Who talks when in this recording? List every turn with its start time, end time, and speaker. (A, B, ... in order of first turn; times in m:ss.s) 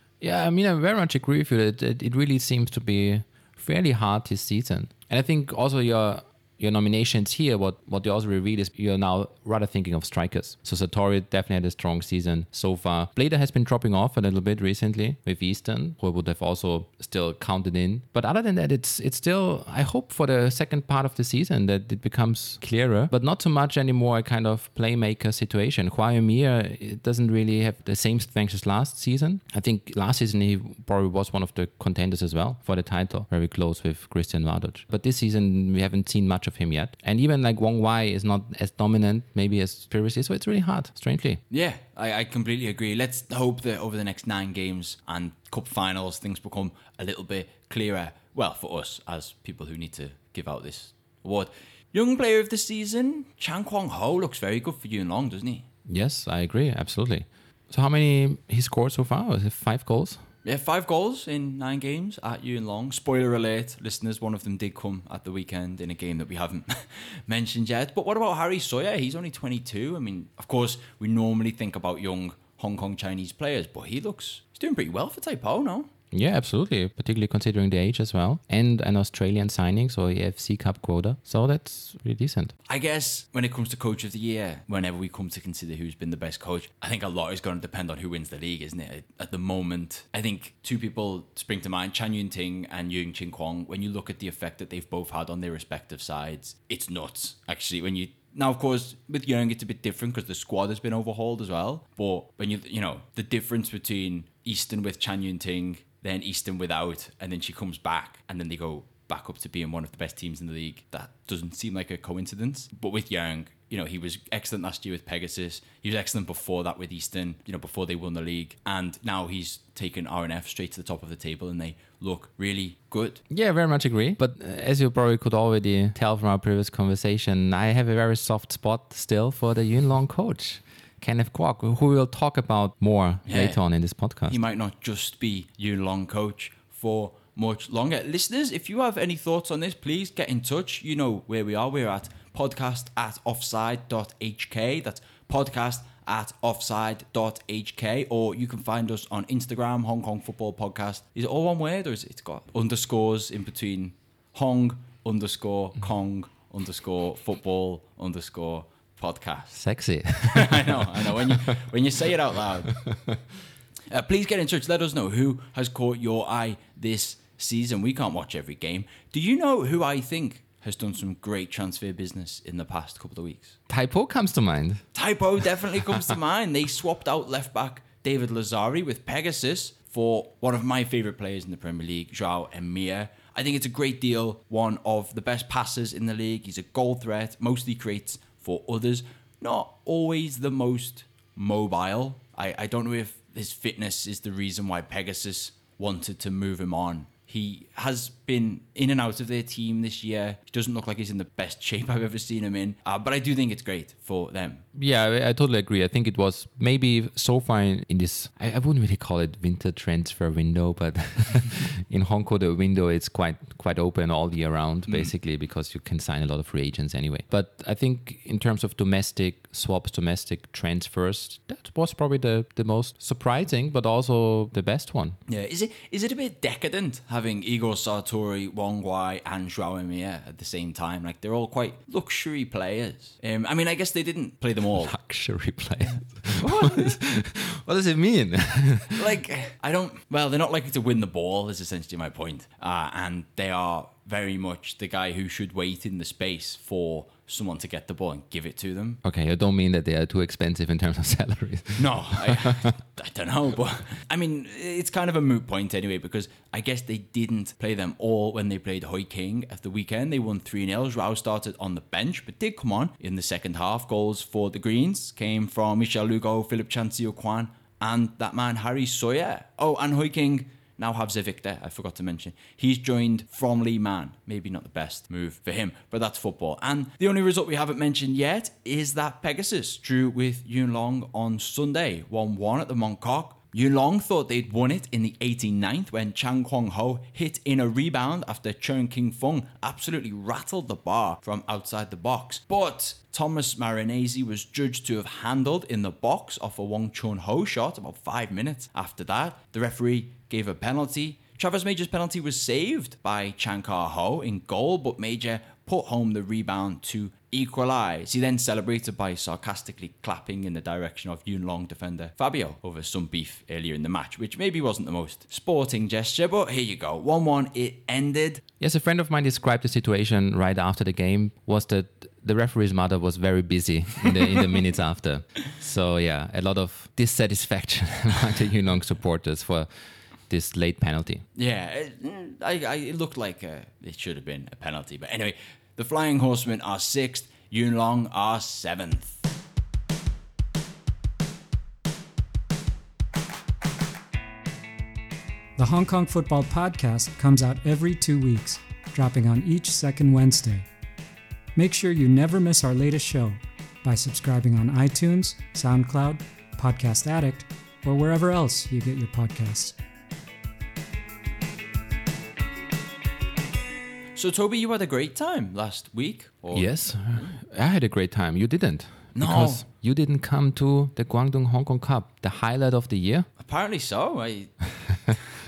0:00.2-0:41.4 A
0:41.5-0:55.7 B
0:55.9-1:00.2 A
1:00.4-1:15.9 B
1:16.1-1:22.5 A
1:22.7-2:03.2 B
2:03.3-2:14.4 A
2:13.2-2:13.6 B
2:14.3-2:39.6 B
2:39.5-2:41.6 A
2:40.2-2:42.8 B
2:42.7-2:43.2 A
2:43.9-2:53.6 B
2:53.7-2:54.8 A
2:54.9-3:24.6 B
3:24.7-3:45.2 A
3:34.9-3:35.1 B
3:45.3-3:54.9 B
3:54.7-3:59.1 A
3:55.9-3:57.0 B
3:58.9-4:09.0 B
4:09.0-4:12.7 A
4:11.8-5:18.4 B
5:18.6-5:29.7 A
5:30.3-5:31.2 A
5:31.3-5:39.2 B
5:45.6-5:50.6 C
5:51.6-5:59.8 C
6:04.1-6:07.3 B
6:06.5-6:13.3 A
6:09.1-6:09.6 B
6:13.4-6:14.6 B